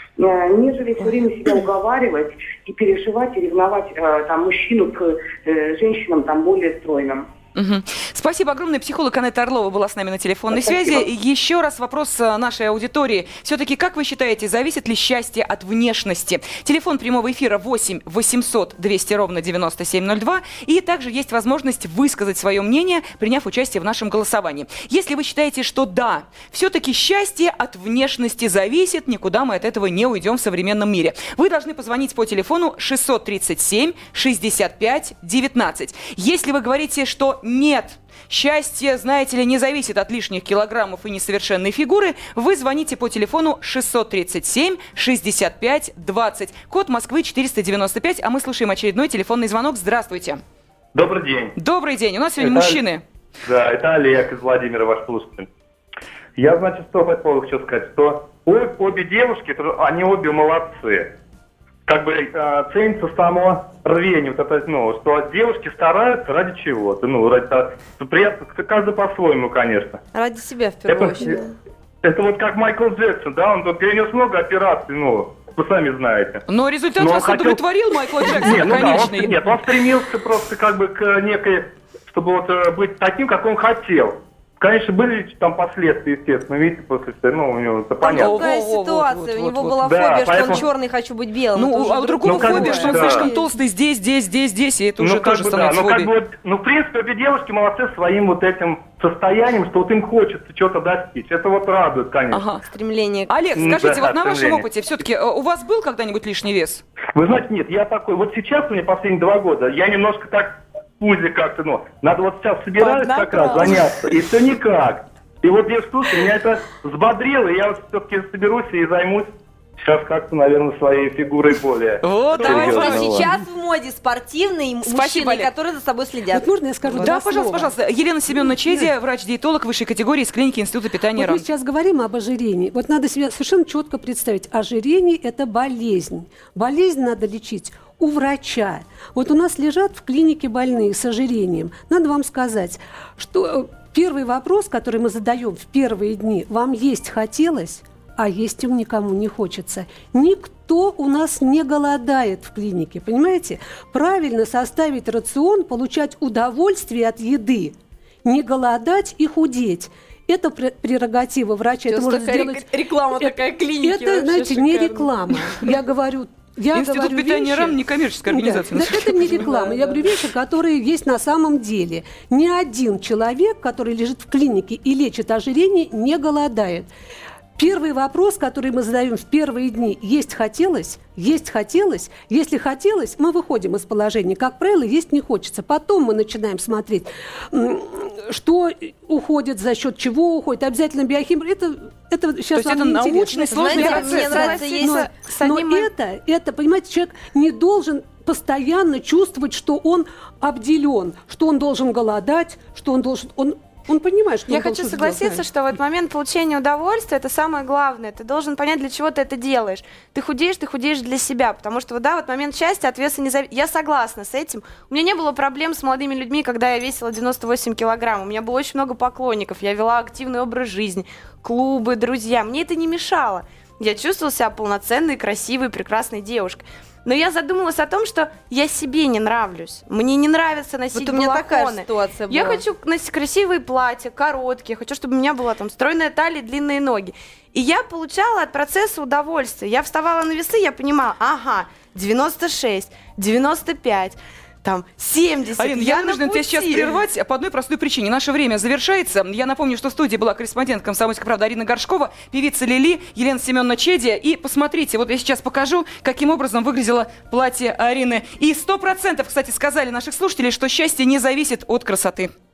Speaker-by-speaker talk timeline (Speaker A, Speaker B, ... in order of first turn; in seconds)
Speaker A: 0.2-7.3
Speaker B: 7.5-50.4, 51.6-53.0, 76.5-79.4, 88.1-89.8, 91.5-96.1, 102.3-102.6, 103.3-106.8, 122.0-123.3, 124.8-125.5, 126.9-131.4, 166.7-169.5, 192.5-194.4, 245.6-262.3
Speaker C: 50.9-51.5, 52.4-52.8, 53.4-55.5, 56.4-61.1, 61.9-70.0, 70.8-71.4, 72.0-76.4, 77.0-77.6, 78.2-88.3, 89.8-90.6, 92.2-93.3, 95.0-102.5, 103.5-104.7, 107.1-123.3
Speaker D: 70.1-71.5, 88.0-93.5, 102.7-103.3, 112.8-113.7, 122.3-127.1, 161.9-165.1, 193.5-195.1, 230.9-232.6
Speaker E: 126.3-127.7, 128.4-128.9, 131.2-162.7, 163.2-176.9, 177.6-205.4
Speaker F: 193.7-195.9, 204.5-247.0